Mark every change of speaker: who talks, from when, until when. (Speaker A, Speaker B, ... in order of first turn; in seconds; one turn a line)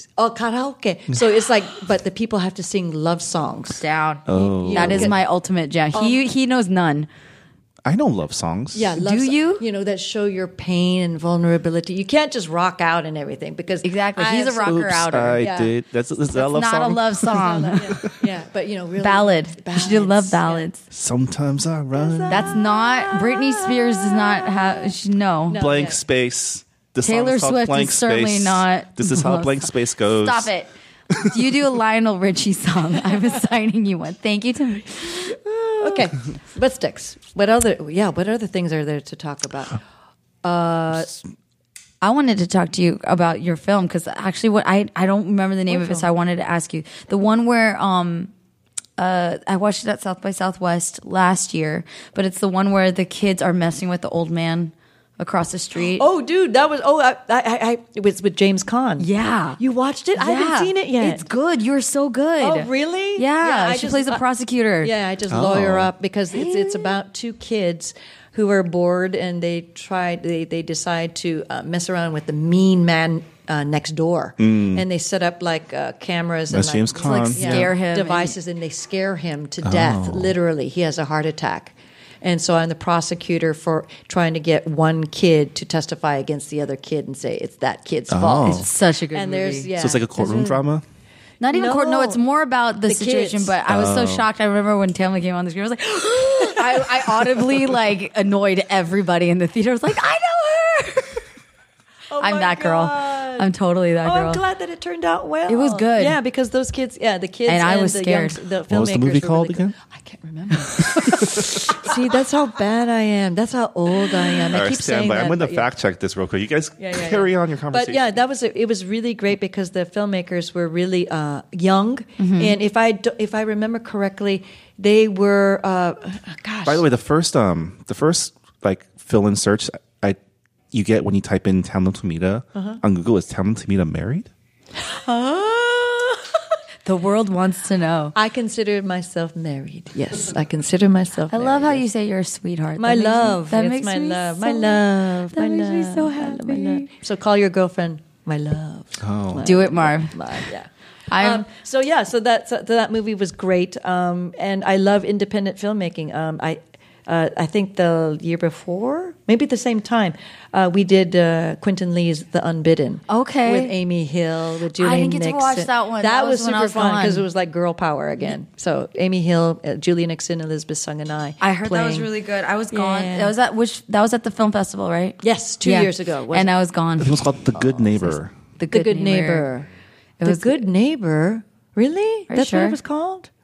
Speaker A: 0.2-5.2
Speaker B: 3.8-7.1
Speaker C: 4.3-5.1
Speaker A: 5.9-6.2
Speaker C: 7.8-8.9
Speaker A: 8.7-14.8
Speaker B: 9.0-9.6
Speaker B: 13.8-15.4
Speaker C: 14.6-17.3
Speaker A: 15.4-15.7
Speaker B: 16.3-18.0
Speaker A: 17.3-20.7
Speaker B: 19.0-20.8
Speaker C: 20.9-22.5
Speaker A: 21.9-24.9
Speaker B: 22.3-25.6
Speaker A: 25.5-26.0
Speaker C: 25.5-30.5
Speaker B: 27.0-36.0
Speaker A: 35.8-39.8
Speaker A: 40.4-41.2
Speaker B: 42.0-48.3
Speaker A: 45.7-46.1
Speaker B: 49.0-56.0
Speaker A: 55.9-59.1
Speaker B: 59.0-59.6
Speaker A: 59.6-61.2
Speaker B: 60.2-64.9
Speaker A: 62.4-64.2
Speaker A: 64.8-90.6
Speaker C: 65.3-65.9
Speaker B: 66.3-67.0
Speaker C: 74.4-74.8
Speaker C: 76.5-77.7
Speaker B: 77.0-78.3
Speaker C: 79.6-80.3
Speaker C: 88.1-88.7
Speaker B: 88.4-89.7
Speaker C: 89.8-90.8
Speaker B: 91.4-101.2
Speaker A: 91.5-92.2
Speaker A: 92.9-93.5
Speaker C: 93.7-94.2
Speaker A: 102.1-103.5
Speaker B: 102.2-104.4
Speaker A: 104.0-115.7
Speaker B: 105.5-106.2
Speaker B: 107.5-108.4
Speaker C: 108.7-109.7
Speaker C: 110.8-111.6
Speaker C: 114.5-118.0
Speaker A: 116.8-126.8
Speaker B: 122.2-122.6
Speaker C: 126.6-130.2
Speaker C: 130.7-134.3
Speaker A: 132.6-132.8
Speaker A: 134.9-136.1
Speaker B: 136.8-138.1
Speaker A: 138.1-141.8
Speaker B: 141.3-146.9
Speaker A: 142.8-172.1
Speaker C: 149.0-149.4
Speaker B: 149.4-150.4
Speaker B: 151.1-151.4
Speaker B: 163.1-163.7
Speaker B: 164.8-167.3
Speaker B: 171.4-179.5
Speaker A: 172.7-173.3
Speaker A: 175.2-176.5
Speaker C: 177.0-178.3
Speaker A: 178.7-179.7
Speaker B: 180.2-180.6
Speaker A: 180.2-183.3
Speaker B: 182.3-182.8